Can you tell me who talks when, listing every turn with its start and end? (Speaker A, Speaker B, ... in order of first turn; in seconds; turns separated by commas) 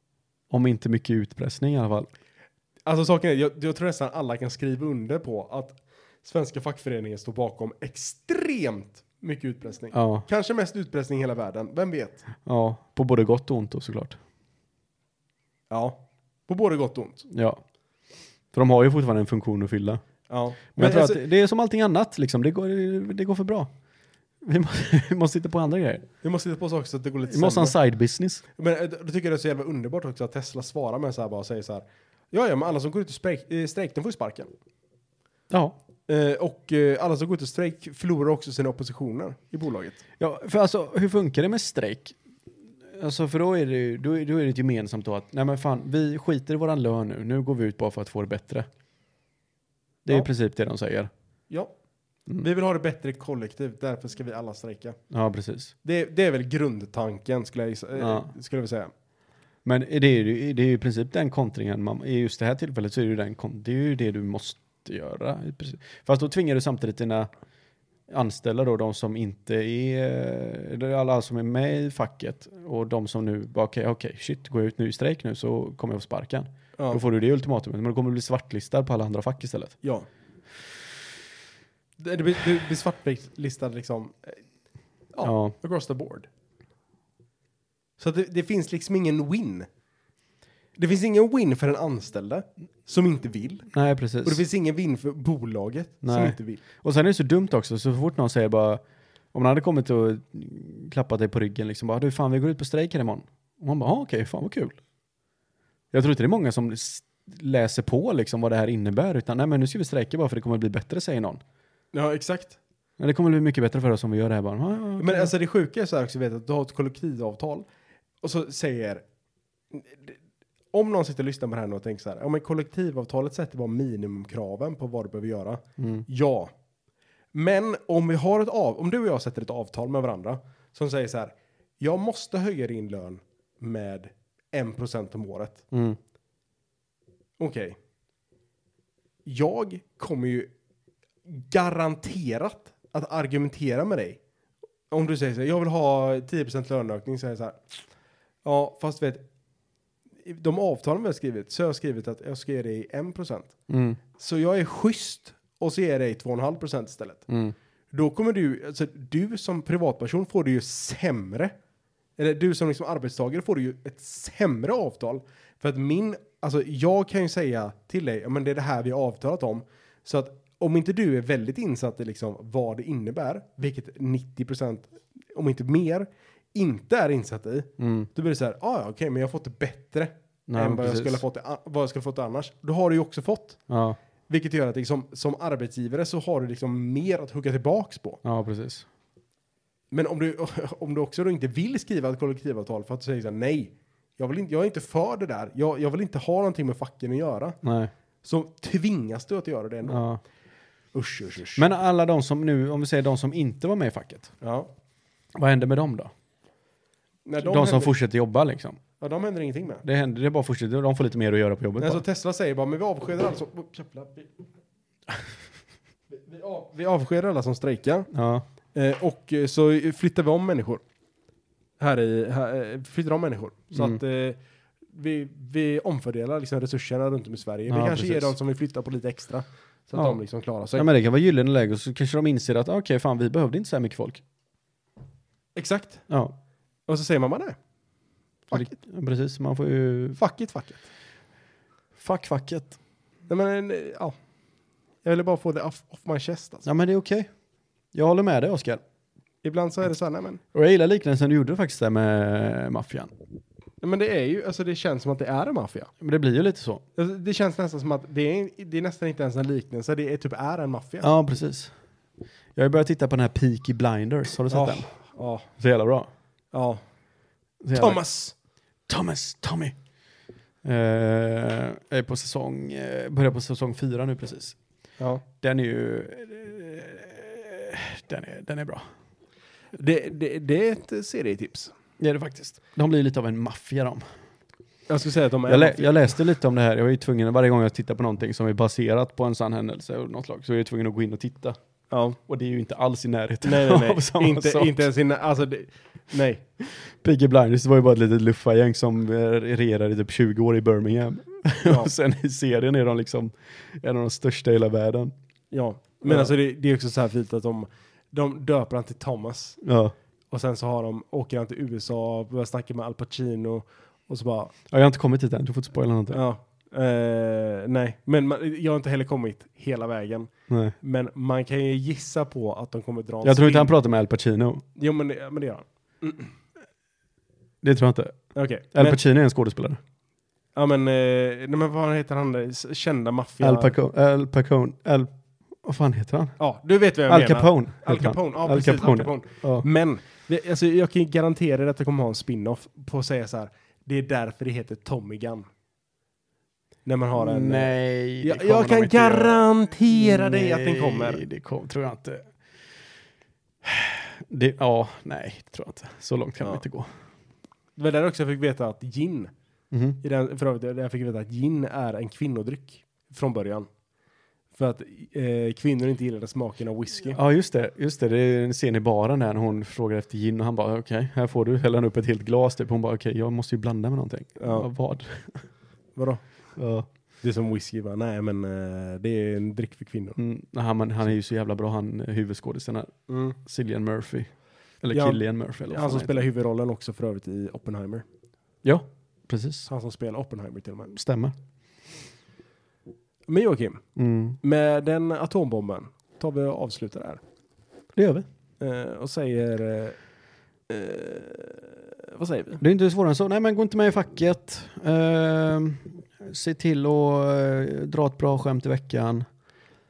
Speaker A: 0.5-2.1, Speaker B: 2.9-12.2, Speaker A: 9.9-10.3, Speaker A: 12.4-14.2, Speaker B: 15.7-17.3, Speaker A: 17.3-17.6, Speaker A: 18.5-20.0, Speaker B: 20.3-21.2, Speaker A: 20.8-23.7, Speaker A: 24.4-26.1, Speaker B: 26.2-27.8, Speaker A: 27.3-28.4, Speaker B: 28.6-34.5, Speaker A: 35.5-35.8, Speaker B: 36.1-40.0, Speaker A: 40.2-42.2, Speaker A: 42.9-48.7, Speaker A: 50.0-51.1, Speaker B: 52.4-55.0, Speaker A: 55.1-55.7, Speaker B: 55.8-58.9, Speaker A: 58.0-58.3, Speaker A: 59.6-67.3, Speaker A: 68.1-79.8, Speaker B: 82.0-84.4, Speaker B: 85.1-86.3, Speaker A: 85.2-85.5, Speaker B: 88.0-89.7, Speaker B: 90.8-93.7, Speaker A: 93.7-94.4, Speaker B: 94.2-96.6, Speaker A: 96.0-98.8, Speaker A: 99.3-104.8, Speaker A: 105.9-111.4, Speaker B: 111.9-112.6, Speaker A: 113.0-115.3, Speaker B: 115.0-117.7, Speaker B: 118.2-119.0, Speaker B: 119.7-120.2, Speaker B: 120.7-126.5, Speaker A: 125.8-126.0, Speaker B: 127.3-135.6, Speaker A: 135.7-136.0, Speaker B: 137.4-137.8, Speaker B: 139.2-140.5, Speaker B: 141.2-144.2, Speaker B: 144.9-147.7, Speaker B: 148.4-149.2, Speaker B: 150.2-153.6, Speaker A: 153.7-154.0, Speaker B: 154.2-157.3, Speaker A: 157.3-157.6, Speaker B: 157.9-161.5, Speaker B: 162.2-183.6, Speaker A: 177.8-178.1, Speaker A: 180.5-181.2, Speaker A: 183.7-184.0, Speaker B: 184.3-188.2, Speaker A: 188.2-188.8, Speaker B: 189.9-197.6, Speaker A: 197.6-197.9, Speaker B: 198.2-200.0, Speaker A: 199.9-200.2, Speaker B: 200.9-201.7, Speaker A: 201.6-204.3, Speaker B: 204.4-204.7, Speaker A: 205.3-206.1, Speaker B: 207.2-207.9, Speaker A: 207.4-208.8, Speaker B: 209.0-209.8, Speaker A: 209.8-212.0, Speaker B: 211.8-214.3, Speaker B: 216.1-218.1, Speaker A: 218.1-218.5, Speaker B: 218.7-220.8, Speaker B: 221.8-224.4, Speaker B: 224.9-230.8, Speaker A: 227.7-228.3, Speaker A: 230.8-234.2, Speaker B: 235.6-236.1, Speaker A: 236.1-236.3, Speaker B: 236.9-237.6, Speaker B: 238.5-238.8, Speaker A: 238.5-240.2, Speaker B: 240.2-240.8, Speaker A: 242.0-242.8, Speaker B: 243.3-244.1, Speaker B: 245.0-246.7, Speaker A: 246.7-247.3, Speaker A: 247.9-248.8, Speaker B: 249.4-250.4, Speaker A: 250.5-253.1, Speaker B: 253.8-255.9, Speaker A: 256.0-256.8, Speaker B: 256.9-261.1, Speaker A: 261.0-261.7, Speaker A: 262.5-264.9, Speaker B: 264.5-265.5, Speaker A: 265.6-266.1, Speaker B: 266.5-266.8, Speaker A: 267.6-268.0, Speaker B: 267.7-268.3, Speaker A: 268.9-269.8, Speaker A: 270.6-274.6, Speaker A: 275.4-278.9, Speaker B: 279.7-281.7, Speaker A: 282.0-284.0, Speaker B: 284.9-286.1, Speaker A: 285.5-291.6, Speaker B: 291.9-292.2, Speaker A: 292.3-294.9, Speaker B: 293.4-296.4, Speaker A: 296.8-305.1, Speaker B: 301.6-301.9, Speaker B: 305.5-309.6, Speaker A: 306.0-306.3, Speaker A: 309.6-309.9, Speaker B: 310.3-314.5, Speaker A: 314.7-316.2, Speaker B: 316.1-323.7, Speaker A: 320.5-320.8, Speaker A: 323.2-324.6, Speaker B: 324.8-326.3, Speaker A: 327.6-328.2, Speaker B: 328.3-329.0, Speaker A: 328.7-329.8, Speaker B: 330.5-333.7, Speaker A: 333.4-335.1, Speaker A: 335.6-336.3, Speaker B: 336.4-345.5, Speaker A: 337.1-339.6, Speaker B: 346.9-351.2, Speaker A: 347.2-352.3, Speaker A: 353.6-356.9, Speaker B: 357.8-359.3, Speaker A: 359.7-360.0, Speaker B: 360.0-363.7, Speaker B: 364.5-367.2, Speaker A: 367.1-375.5, Speaker B: 374.4-374.7, Speaker B: 375.9-376.2, Speaker A: 376.6-376.9, Speaker B: 377.2-380.2, Speaker A: 380.2-384.3, Speaker B: 383.1-383.4, Speaker A: 384.8-386.2, Speaker B: 384.9-388.1, Speaker A: 388.6-389.7, Speaker B: 389.7-390.9, Speaker A: 390.9-391.3, Speaker B: 393.3-393.8, Speaker A: 393.9-394.4, Speaker B: 394.4-397.2, Speaker A: 397.9-398.3, Speaker B: 398.6-400.0, Speaker B: 400.7-402.6, Speaker A: 402.6-409.2